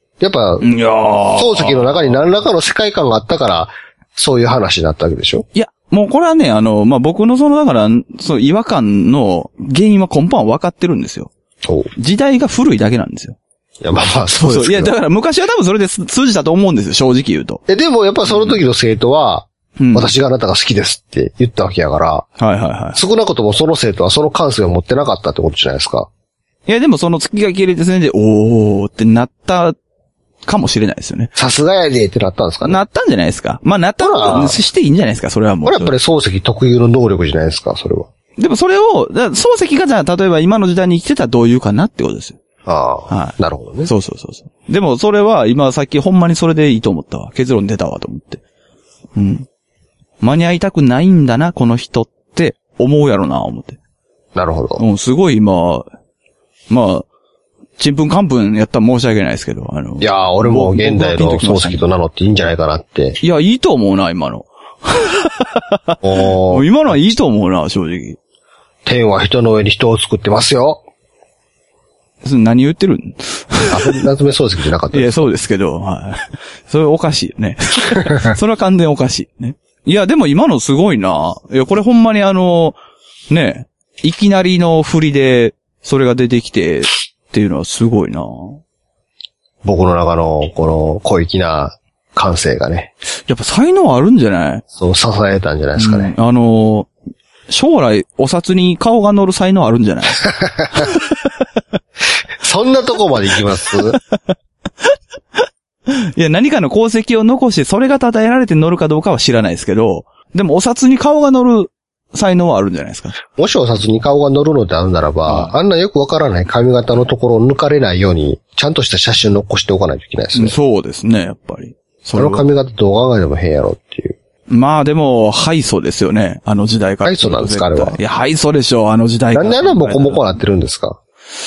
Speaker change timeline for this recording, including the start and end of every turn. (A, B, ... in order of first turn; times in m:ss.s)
0:00.2-0:00.7 A
0:00.6-0:02.2 B
0:01.4-0:05.5 A
0:05.5-0:11.3 B
0:11.6-0:11.9 A
0:12.0-0:13.4 B
0:13.8-0:15.0 A
0:14.4-0:17.6 B
0:17.7-0:22.3 A
0:18.3-0:18.6 B
0:19.8-0:20.1 B
0:22.4-0:23.0 B
0:23.0-0:26.1 A
0:26.6-0:29.8 B
0:30.5-0:31.3 B
0:31.4-0:32.8 A
0:32.6-0:35.9 B
0:34.0-0:34.6 A
0:35.6-0:38.1 A
0:38.4-0:42.4 B
0:42.6-0:43.9 A
0:43.1-0:48.4 B
0:49.1-0:49.5 B
0:50.2-0:53.8 B
0:54.4-0:54.8 A
0:54.8-0:55.9 B
0:56.7-0:57.1 B
0:57.8-1:01.9 B
1:00.0-1:03.2 A
1:03.2-1:08.2 B
1:06.0-1:07.0 A
1:08.8-1:10.8 A
1:12.2-1:14.0 B
1:13.7-1:15.3 A
1:14.9-1:22.8 B
1:23.3-1:28.6 B
1:29.6-1:32.9 A
1:33.3-1:34.6 B
1:34.8-1:36.1 A
1:35.8-1:36.9 B
1:37.5-1:41.2 B
1:40.2-1:40.8 A
1:42.4-1:44.0 A
1:43.9-1:53.2 B
1:53.3-2:00.5 A
1:55.2-1:55.5 B
2:00.3-2:02.4 B
2:02.1-2:04.2 A
2:04.5-2:10.2 B
2:07.0-2:08.0 A
2:09.4-2:11.0 A